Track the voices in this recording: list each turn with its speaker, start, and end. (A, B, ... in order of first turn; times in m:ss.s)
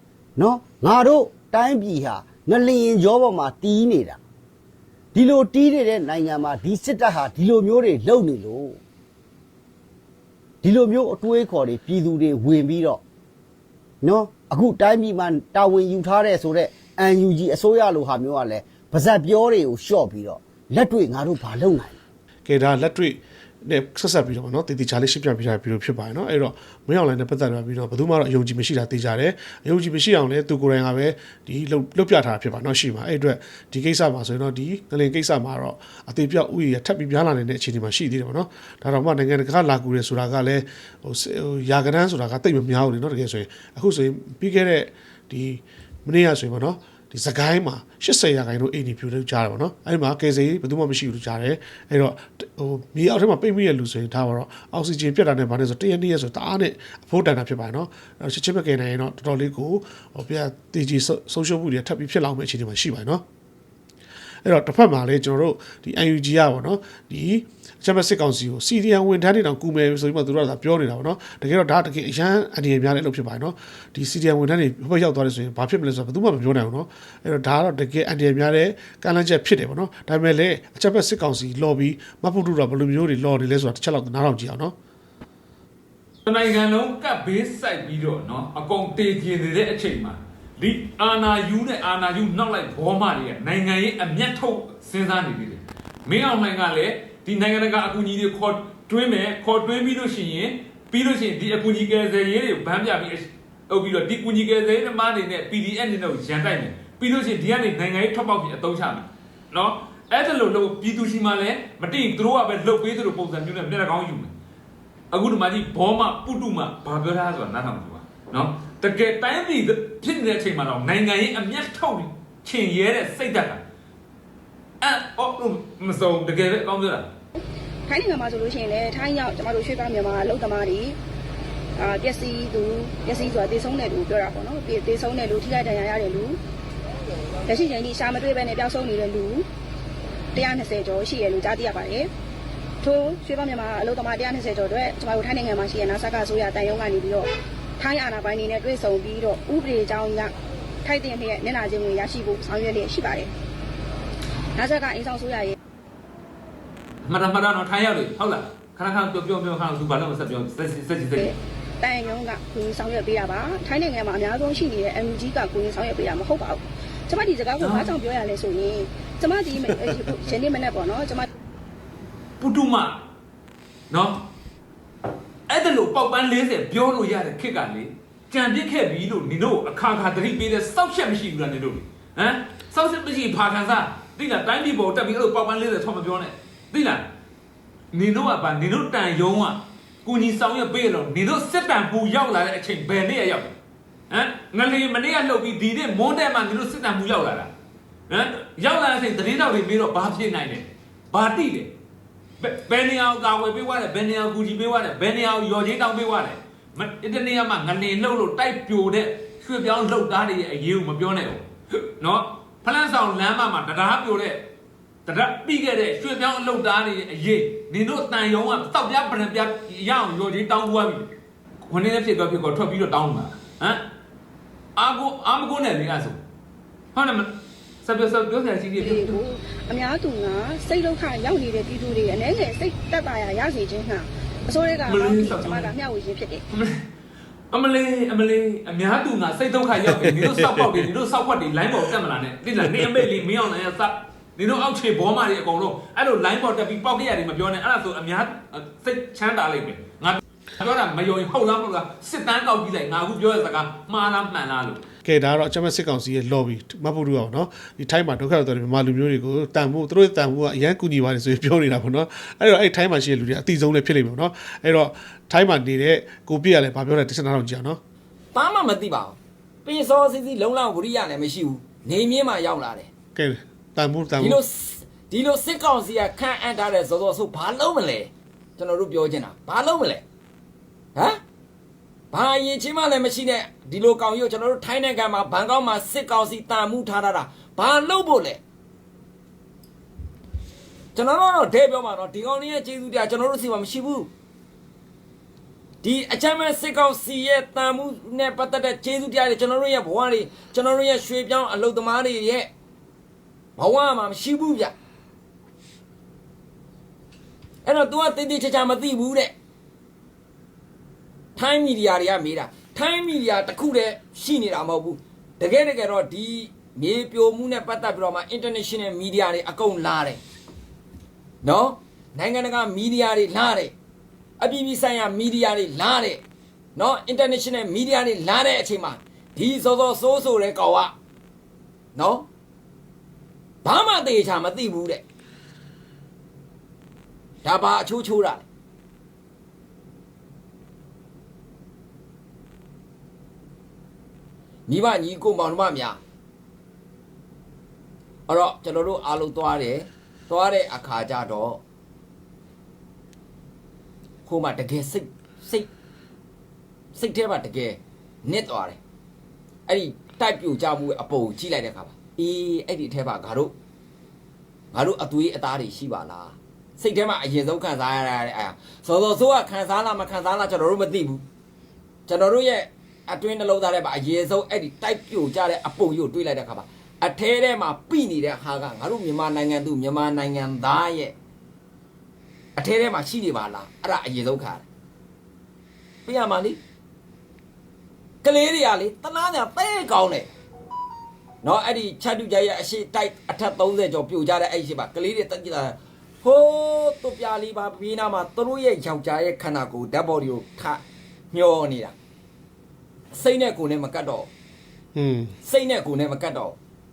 0:00.4-0:04.2 A
0:05.1-0:08.8 A
0:10.6-0:13.0 A
0:14.0-0:22.0 A
0:22.4-1:03.2 B
1:04.4-1:24.7 B
1:26.2-1:54.3 C
1:55.1-2:03.6 C
2:04.8-2:07.1 C
2:07.9-2:11.0 D
2:11.8-2:16.4 D
2:17.5-2:19.4 D
2:20.3-2:22.1 D
2:22.8-2:30.3 D
2:30.8-2:33.3 D
2:34.6-2:35.5 D
2:37.0-2:41.3 C
2:41.2-2:51.3 D
2:47.6-2:48.0 C
2:52.4-2:53.0 C
2:53.9-2:54.2 C
2:55.5-3:07.1 C
3:07.9-3:13.5 C
3:14.1-3:17.5 C
3:18.1-3:21.7 C
3:22.4-3:34.5 C
3:35.0-3:41.1 C
3:41.6-3:43.8 C
3:44.8-3:46.2 C
3:46.9-3:47.3 C
3:47.8-3:49.2 C
3:48.8-3:56.4 D
3:54.8-3:55.7 C
3:56.5-3:56.8 C
3:57.5-4:14.8 C
4:15.0-4:27.8 B
4:28.3-4:32.9 E
4:33.1-4:34.4 B
4:34.2-4:40.0 E
4:40.9-4:41.2 E
4:42.1-4:48.4 E
4:50.9-4:54.1 E
4:55.8-5:02.5 E
5:03.6-5:04.7 E
5:07.6-5:09.3 E
5:11.4-5:20.2 E
5:21.4-5:23.7 E
5:24.4-5:26.2 E
5:26.7-5:30.9 E
5:31.9-5:32.3 E
5:33.6-5:35.0 E
5:37.4-5:38.4 E
5:44.7-5:46.0 E
5:48.3-5:51.6 E
5:54.2-5:55.7 E
5:56.9-5:58.8 E
5:59.7-6:03.5 E
6:04.7-6:11.2 E
6:12.1-6:21.1 E
6:22.6-6:24.6 E
6:26.0-6:26.6 E
6:28.2-6:30.3 E
6:31.4-6:40.8 E
6:41.3-6:41.9 E
6:43.1-6:44.3 E
6:44.9-6:45.3 B
6:45.4-6:46.6 E